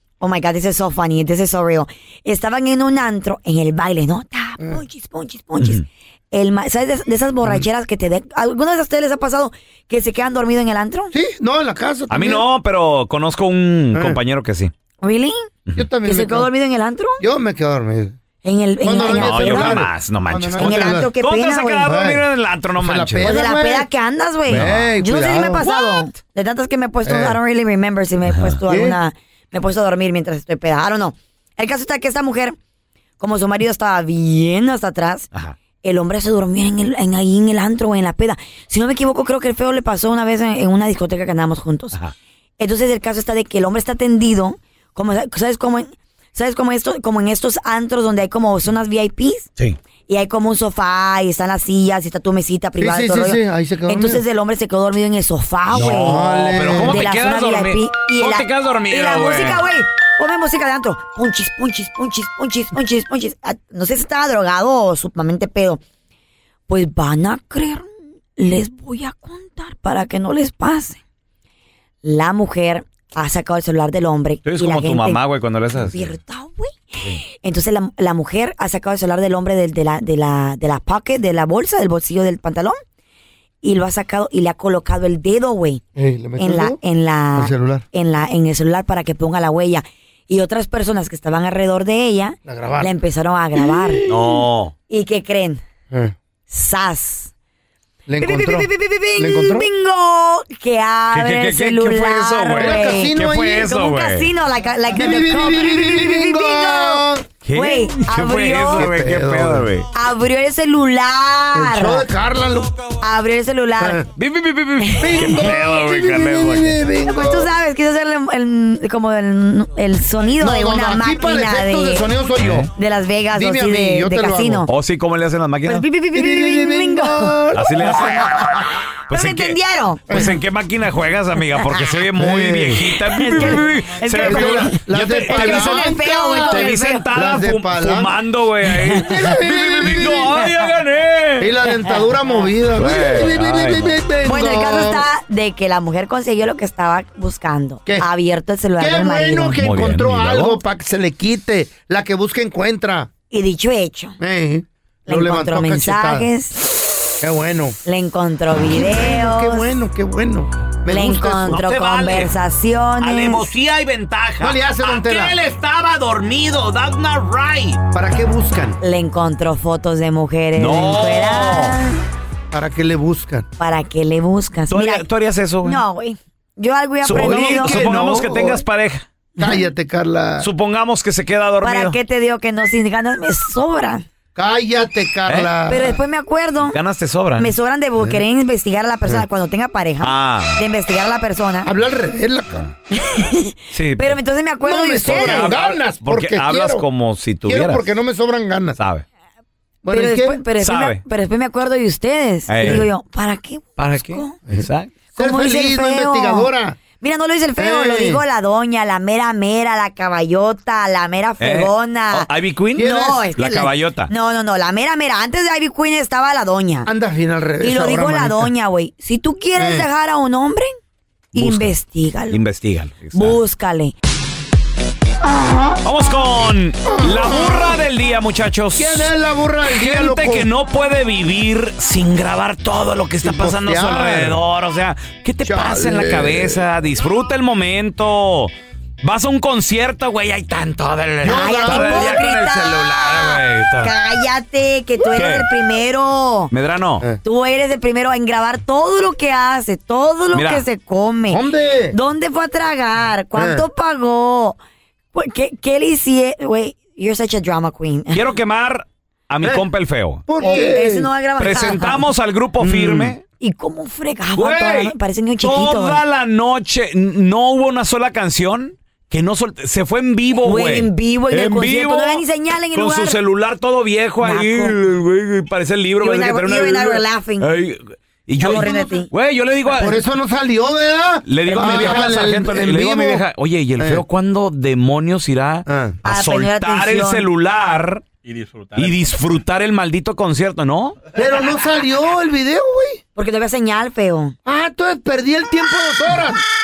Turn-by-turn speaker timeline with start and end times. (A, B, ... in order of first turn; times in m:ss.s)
0:00.2-0:11.1 A
0:05.6-0:05.8 B
0:11.1-0:12.4 C
0:12.1-0:14.7 B
0:13.9-0:14.2 C
0:15.0-0:15.5 A
0:15.8-0:16.5 C
0:16.0-0:17.2 A
0:17.2-0:18.2 C
0:18.4-0:19.8 A
0:18.8-0:21.1 C
0:19.0-0:23.4 B
0:20.6-0:21.9 A
0:21.9-0:22.2 C
0:22.8-0:23.9 C
0:23.2-0:32.6 A
0:24.5-0:25.6 C
0:24.5-0:24.8 B
0:25.7-0:26.0 B
0:27.1-0:27.4 C
0:28.3-0:28.6 B
0:28.7-0:29.0 C
0:33.2-0:35.3 A
0:35.8-0:42.0 A
0:42.6-0:49.5 A
0:50.1-0:56.2 A
0:52.8-0:54.2 C
0:55.7-0:59.6 B
0:55.7-0:57.0 C
0:56.8-1:05.8 A
1:06.7-1:11.0 A
1:12.0-1:15.2 A
1:14.4-1:16.2 B
1:15.8-1:22.8 A
1:23.6-1:25.8 A
1:26.0-1:26.8 C
1:26.4-1:34.0 A
1:27.4-1:27.8 C
1:32.5-1:32.9 C
1:33.6-1:34.2 C
1:34.1-1:34.7 B
1:34.9-1:35.6 A
1:36.5-1:37.3 A
1:38.1-1:39.7 C
1:38.2-1:48.9 A
1:41.1-1:44.3 B
1:42.6-1:43.7 C
1:44.9-1:47.3 C
1:47.4-1:49.9 B
1:48.7-1:49.7 C
1:49.9-1:52.1 A
1:51.5-1:52.7 C
1:53.0-1:54.0 A
1:53.8-1:54.1 C
1:54.2-1:56.8 B
1:54.8-1:55.4 A
1:55.0-1:57.5 C
1:57.1-2:02.1 A
2:00.4-2:02.7 C
2:02.4-2:02.7 B
2:02.8-2:04.7 A
2:03.4-2:04.7 C
2:04.7-2:05.8 B
2:05.7-2:07.4 A
2:06.1-2:08.7 C
2:07.5-2:08.3 B
2:09.1-2:09.6 B
2:09.1-2:10.2 A
2:10.1-2:21.6 B
2:12.2-2:13.0 C
2:13.1-2:17.1 A
2:14.2-2:18.2 C
2:18.9-2:20.4 C
2:21.4-2:25.0 C
2:22.7-2:24.0 B
2:24.2-2:29.6 A
2:28.8-2:33.1 C
2:29.6-2:30.6 B
2:33.3-2:34.2 A
2:34.2-2:36.3 C
2:35.1-2:36.6 A
2:37.2-2:37.8 C
2:37.8-2:39.7 A
2:38.7-2:41.6 C
2:40.9-2:43.5 A
2:41.5-2:42.3 D
2:43.0-2:47.8 D
2:44.4-2:45.4 C
2:47.9-2:48.8 C
2:48.8-2:52.0 A
2:50.6-2:51.8 B
2:52.5-2:53.5 C
2:53.6-2:55.0 A
2:54.7-2:55.8 B
2:55.6-2:57.8 A
2:57.0-2:59.1 B
2:57.1-2:58.6 C
2:59.4-3:00.5 C
3:00.4-3:02.0 B
3:01.6-3:04.1 A
3:04.4-3:06.0 C
3:05.7-3:06.8 A
3:06.7-3:07.5 B
3:07.4-3:11.7 A
3:10.0-3:10.6 B
3:11.6-3:12.7 C
3:13.0-3:15.5 A
3:13.7-3:14.2 B
3:14.6-3:16.8 C
3:15.0-3:17.8 B
3:17.5-3:18.8 C
3:18.8-3:19.0 B
3:19.8-3:20.4 C
3:19.9-3:24.4 A
3:20.6-3:21.0 B
3:22.5-3:22.9 B
3:23.8-3:24.9 B
3:24.5-3:26.8 C
3:25.2-3:26.5 A
3:27.0-3:32.3 A
3:27.6-3:28.2 C
3:31.4-3:34.1 B
3:32.8-3:33.2 C
3:32.8-3:36.9 A
3:36.9-3:38.5 C
3:37.6-3:40.7 A
3:39.6-3:39.9 C
3:41.3-3:41.7 B
3:41.3-3:42.4 A
3:42.3-3:43.4 B
3:43.1-3:43.9 A
3:45.2-3:45.8 A
3:45.8-3:49.1 B
3:46.8-3:47.8 C
3:48.8-3:50.5 C
3:49.7-4:03.9 B
3:53.2-3:54.4 C
3:55.4-3:56.6 C
4:01.2-4:02.2 C
4:01.3-4:06.5 A
4:05.1-4:05.5 B
4:06.5-4:07.0 B
4:07.2-4:11.4 A
4:10.3-4:10.7 B
4:11.3-4:12.0 C
4:11.9-4:14.6 A
4:13.4-4:13.6 C
4:15.1-4:18.2 A
4:18.1-4:20.7 B
4:20.3-4:21.1 C
4:20.4-4:22.1 A
4:21.4-4:23.2 B
4:22.6-4:23.2 C
4:23.4-4:26.0 A
4:24.4-4:40.0 B
4:30.4-4:33.2 A
4:34.2-4:34.8 A
4:36.0-4:37.5 A
4:38.4-4:39.1 A
4:38.4-4:38.9 C
4:39.7-4:43.2 C
4:41.3-4:48.0 B
4:41.5-4:42.0 A
4:43.8-4:44.0 C
4:45.7-4:46.0 C
4:46.1-4:47.3 A
4:48.8-4:51.0 B
4:51.1-4:53.0 C
4:53.2-4:54.4 A
4:54.5-4:56.4 C